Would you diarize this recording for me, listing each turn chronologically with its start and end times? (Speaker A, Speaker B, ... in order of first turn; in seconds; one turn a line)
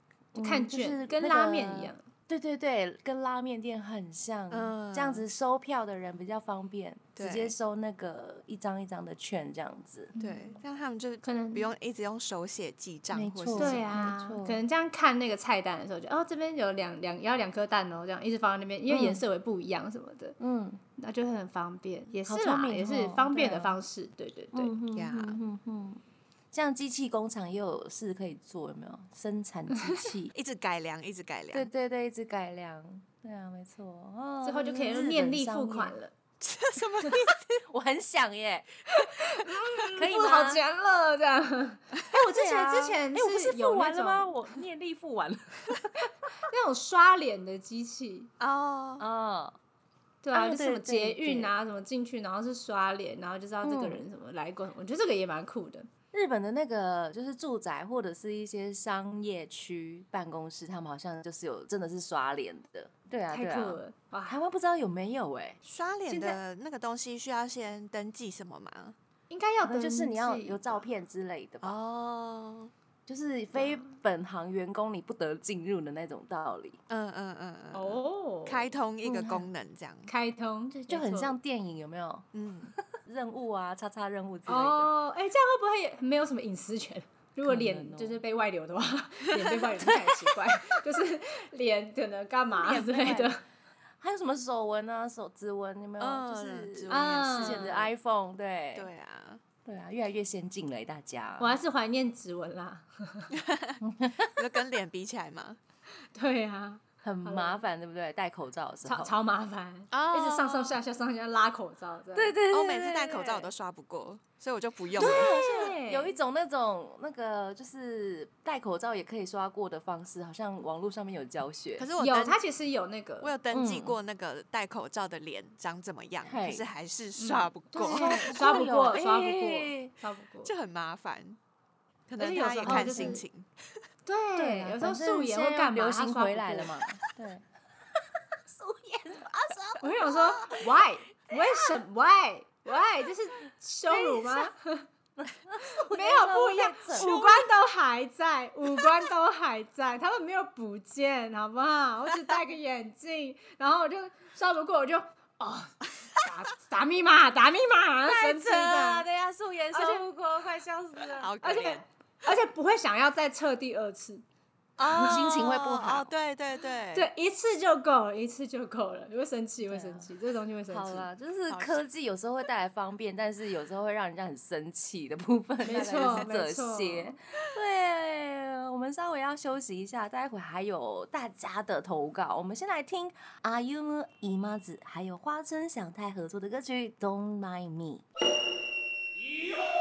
Speaker A: 0.3-10.1
Speaker B: 0.4-2.0
Speaker C: 4.5-5.2
Speaker C: 7.2-7.5
Speaker B: 10.2-10.6
Speaker C: 10.2-14.1
Speaker B: 11.2-11.7
Speaker A: 13.1-14.6
Speaker B: 13.6-20.4
Speaker A: 18.9-19.2
Speaker A: 20.4-20.8
Speaker B: 21.0-24.7
Speaker A: 22.3-23.8
Speaker A: 24.5-26.0
Speaker C: 24.9-25.4
Speaker A: 26.5-30.3
Speaker C: 30.3-31.7
Speaker A: 31.5-36.0
Speaker B: 34.4-36.1
Speaker C: 36.4-37.6
Speaker A: 37.6-38.7
Speaker B: 38.9-44.6
Speaker A: 40.0-40.6
Speaker A: 42.3-45.9
Speaker B: 46.5-48.3
Speaker C: 48.4-49.1
Speaker A: 49.0-49.5
Speaker B: 50.2-55.9
Speaker A: 50.3-51.5
Speaker A: 53.6-54.0
Speaker A: 56.1-65.6
Speaker B: 63.3-64.4
Speaker C: 65.6-69.0
Speaker B: 66.1-66.4
Speaker B: 69.3-70.8
Speaker A: 69.6-71.8
Speaker C: 71.6-72.7
Speaker A: 73.1-76.8
Speaker B: 73.5-73.9
Speaker C: 76.9-80.1
Speaker B: 77.7-78.7
Speaker A: 79.0-79.5
Speaker B: 80.1-81.3
Speaker A: 80.7-84.9
Speaker C: 82.3-82.7
Speaker B: 84.5-93.4
Speaker A: 87.5-88.2
Speaker A: 92.5-93.3
Speaker A: 94.0-98.9
Speaker C: 96.0-97.8
Speaker B: 96.9-97.9
Speaker C: 98.7-99.4
Speaker A: 99.6-101.6
Speaker B: 101.4-103.3
Speaker C: 103.3-103.8
Speaker A: 103.8-104.4
Speaker C: 104.3-105.6
Speaker B: 106.1-107.6
Speaker A: 107.0-109.1
Speaker B: 108.8-112.4
Speaker C: 109.9-110.8
Speaker A: 112.1-113.5
Speaker C: 112.5-115.3
Speaker A: 115.0-121.9
Speaker B: 115.0-116.1
Speaker C: 121.8-122.4
Speaker B: 122.0-123.3
Speaker C: 123.2-128.6
Speaker A: 123.5-124.0
Speaker A: 126.2-126.7
Speaker B: 127.2-130.5
Speaker A: 127.8-129.9
Speaker C: 130.4-131.4
Speaker C: 132.1-133.5
Speaker B: 132.2-133.2
Speaker A: 132.6-133.2
Speaker B: 134.1-136.7
Speaker A: 134.3-140.6
Speaker B: 139.8-144.9
Speaker A: 141.3-141.7
Speaker A: 143.9-144.5
Speaker A: 145.2-147.1
Speaker B: 145.6-159.1
Speaker C: 146.9-147.5
Speaker A: 158.1-161.3
Speaker B: 159.7-160.0
Speaker C: 161.1-161.8
Speaker B: 161.4-164.2
Speaker C: 164.8-167.1
Speaker B: 164.9-165.2
Speaker A: 164.9-166.1
Speaker B: 166.9-171.1
Speaker A: 169.7-170.1
Speaker A: 170.7-188.1
Speaker C: 171.5-171.8
Speaker B: 175.6-177.2
Speaker C: 175.7-176.3